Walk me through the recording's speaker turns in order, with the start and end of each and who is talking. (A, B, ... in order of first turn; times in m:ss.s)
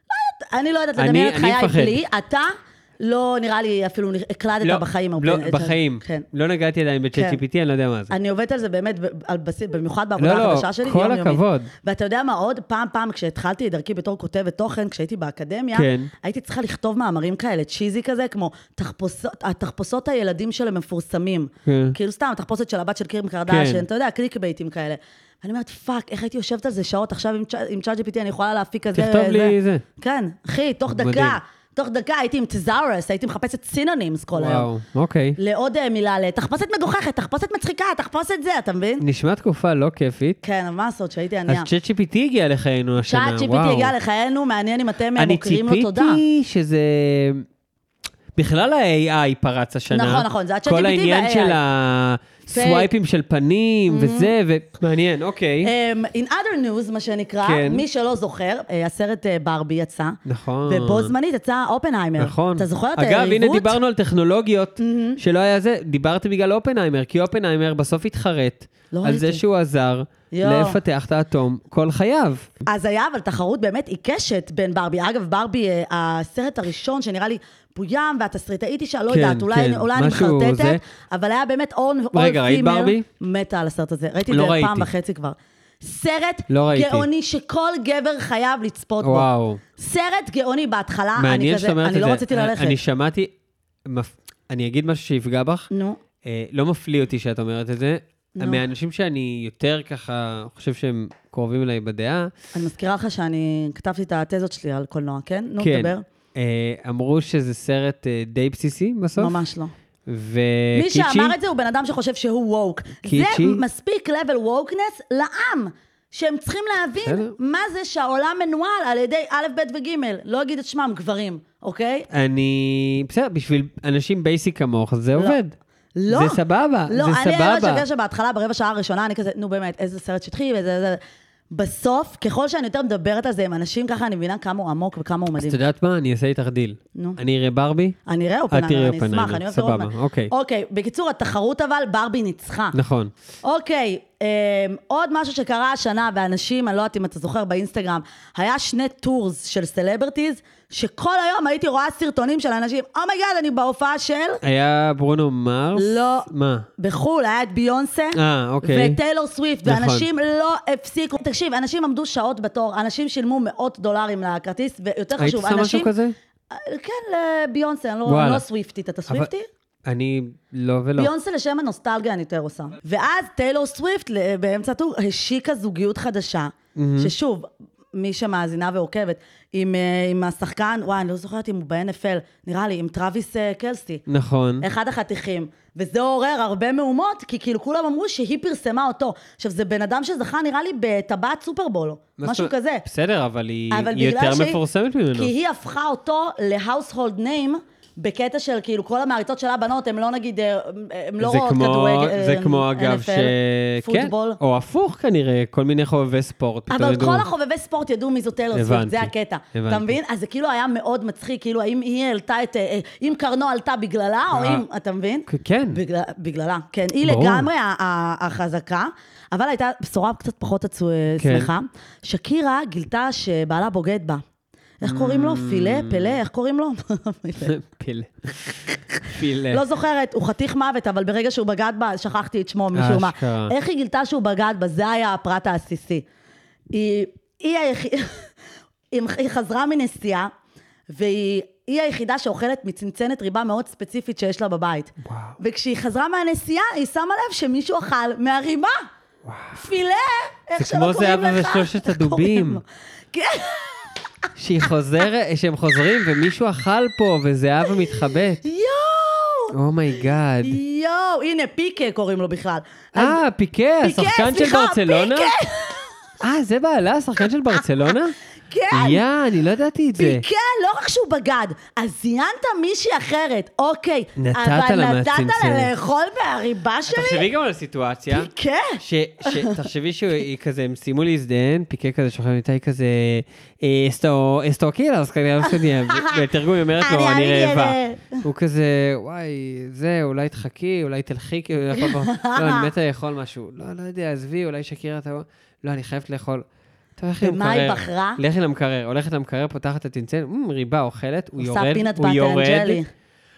0:00.1-0:06.3 A
0:01.0-0:02.0 B
0:04.6-0:08.1 B
0:07.1-0:07.4 A
0:08.1-0:34.7 A
0:10.2-0:11.7 B
0:15.7-0:16.1 B
0:21.7-0:22.0 B
0:23.5-0:23.9 B
0:28.9-0:29.8 B
0:30.9-0:31.4 B
0:34.4-0:35.4 B
0:35.4-0:39.0 A
0:39.0-0:40.4 B
0:40.4-0:41.7 A
0:41.5-0:43.9 B
0:43.0-0:46.2 A
0:45.2-0:47.4 B
0:48.4-0:55.7 B
0:49.9-0:51.6 A
0:52.5-0:52.9 A
0:53.9-0:54.3 A
0:55.6-1:03.8 A
0:57.4-0:57.8 B
1:00.3-1:01.1 B
1:02.2-1:12.5 B
1:04.8-1:05.2 A
1:08.9-1:09.4 A
1:10.3-1:10.8 A
1:12.7-1:32.8 A
1:19.1-1:20.8 B
1:22.1-1:23.1 B
1:24.3-1:24.9 B
1:26.5-1:27.1 B
1:29.0-1:29.6 B
1:31.2-1:33.3 B
1:33.9-1:35.7 B
1:35.7-1:36.0 A
1:36.2-1:42.3 B
1:38.4-1:38.6 A
1:42.5-1:46.0 A
1:45.6-1:49.4 B
1:49.2-1:49.7 A
1:50.1-1:51.4 B
1:50.7-2:02.1 A
1:53.0-1:53.6 B
1:57.0-1:57.3 B
2:02.1-2:05.6 B
2:06.0-2:11.0 A
2:06.1-2:07.8 B
2:11.5-2:15.6 A
2:15.4-2:18.0 B
2:18.1-2:22.8 A
2:18.5-2:20.3 B
2:22.7-2:23.1 B
2:23.4-2:34.4 A
2:34.4-2:36.7 B
2:35.8-2:45.9 A
2:38.2-2:39.0 B
2:39.6-2:40.1 B
2:45.2-2:46.2 B
2:46.5-2:49.5 A
2:48.1-2:48.4 B
2:49.8-2:51.1 B
2:51.0-3:04.0 A
2:56.8-2:57.1 B
3:04.1-3:04.7 B
3:04.6-3:12.8 A
3:12.2-3:15.3 B
3:13.7-3:14.6 A
3:15.2-3:24.4 A
3:21.2-3:27.3 B
3:26.7-3:44.2 A
3:28.5-3:30.0 B
3:34.3-3:34.6 B
3:35.3-3:35.8 B
3:37.0-3:37.5 B
3:41.2-3:41.5 B
3:44.8-3:47.6 A
3:44.8-3:46.2 B
3:47.4-3:49.6 B
3:48.9-3:56.0 A
3:52.7-3:53.5 B
3:56.7-3:58.3 A
3:58.9-4:00.3 A
4:00.9-4:08.8 A
4:05.0-4:05.4 B
4:09.2-4:09.6 B
4:09.5-4:14.3 A
4:10.6-4:12.6 B
4:14.4-4:18.4 B
4:17.7-4:19.6 A
4:19.5-4:20.6 B
4:20.4-4:23.2 A
4:23.0-4:25.3 B
4:23.8-4:25.9 A
4:26.2-4:28.2 B
4:28.5-4:29.0 A
4:28.7-4:30.2 B
4:30.0-4:37.3 A
4:34.2-4:35.7 B
4:36.9-4:38.3 B
4:38.1-4:39.6 A
4:38.8-4:56.4 B
4:45.5-4:46.2 A
4:46.8-4:48.2 A
4:51.8-4:52.7 A
4:57.0-5:02.8 B
4:57.2-4:58.2 A
5:01.4-5:02.9 A